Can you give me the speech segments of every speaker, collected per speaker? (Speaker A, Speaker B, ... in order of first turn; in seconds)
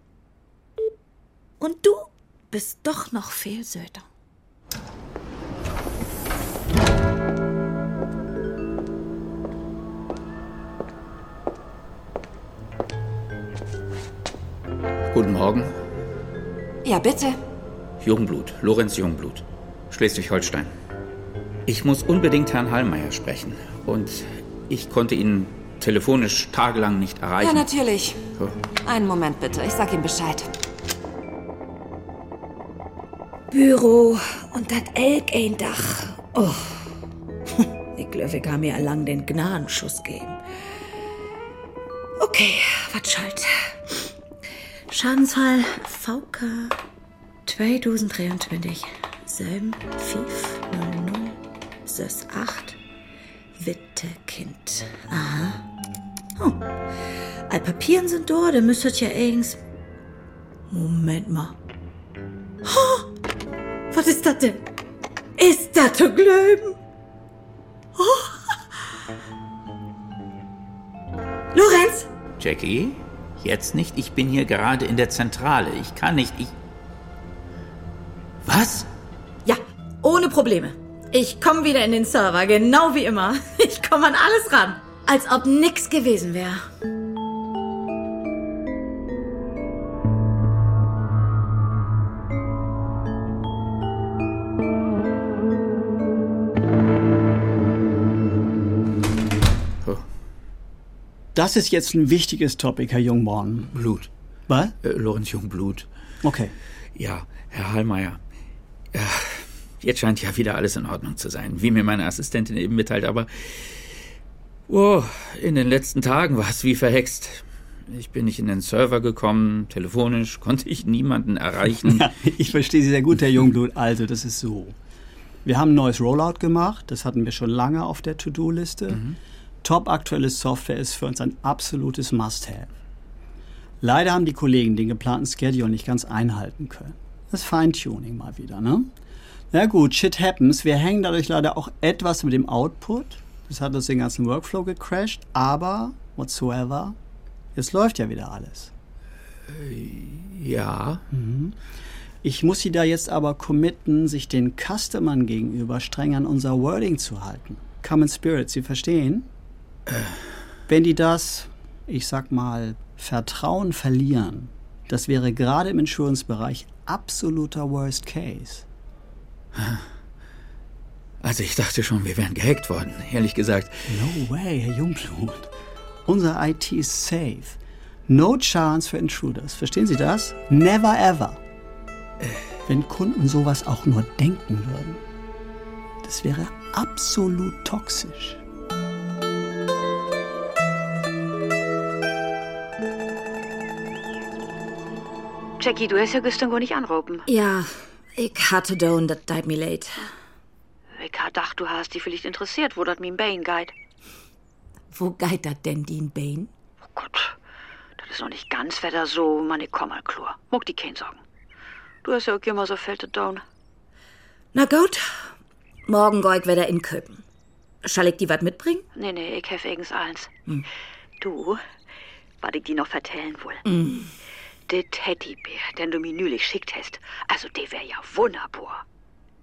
Speaker A: 1.6-4.1, 33.5-36.9, 37.6-40.4, 42.2-44.1, 44.9-46.8, 47.5-52.8, 53.6-55.6, 56.4-56.7, 57.5-59.6, 60.7-61.6, 62.6-63.1, 63.9-64.6, 65.4-66.8, 68.0-68.5, 71.5-72.1, 79.5-86.6, 197.3-200.1, 204.9-206.5, 214.5-215.3, 215.9-217.2, 217.8-218.9, 223.7-224.1
Speaker B: 15.1-15.7, 18.0-20.7, 21.7-27.7, 72.4-76.5, 78.4-78.9, 103.7-104.1, 104.8-105.9, 107.0-108.2, 108.9-114.0, 114.7-122.1, 149.5-151.0, 159.9-160.1, 169.6-169.8, 171.2-174.1
Speaker C: 16.8-17.4, 27.4-28.2, 28.9-30.5
Speaker D: 101.3-103.8, 104.5-104.8, 106.2-106.5, 121.8-124.8, 125.5-129.1, 129.6-132.7, 133.8-138.9, 139.5-147.0, 147.6-148.7, 151.1-151.6, 152.2-159.3, 160.7-168.7, 173.9-175.5, 176.1-181.4, 182.7-185.0, 186.0-188.4
Speaker E: 195.6-197.3, 201.0-203.7, 206.9-207.3, 208.0-211.2, 212.0-213.4, 218.9-220.4, 221.2-221.6, 222.4-223.6, 224.7-228.8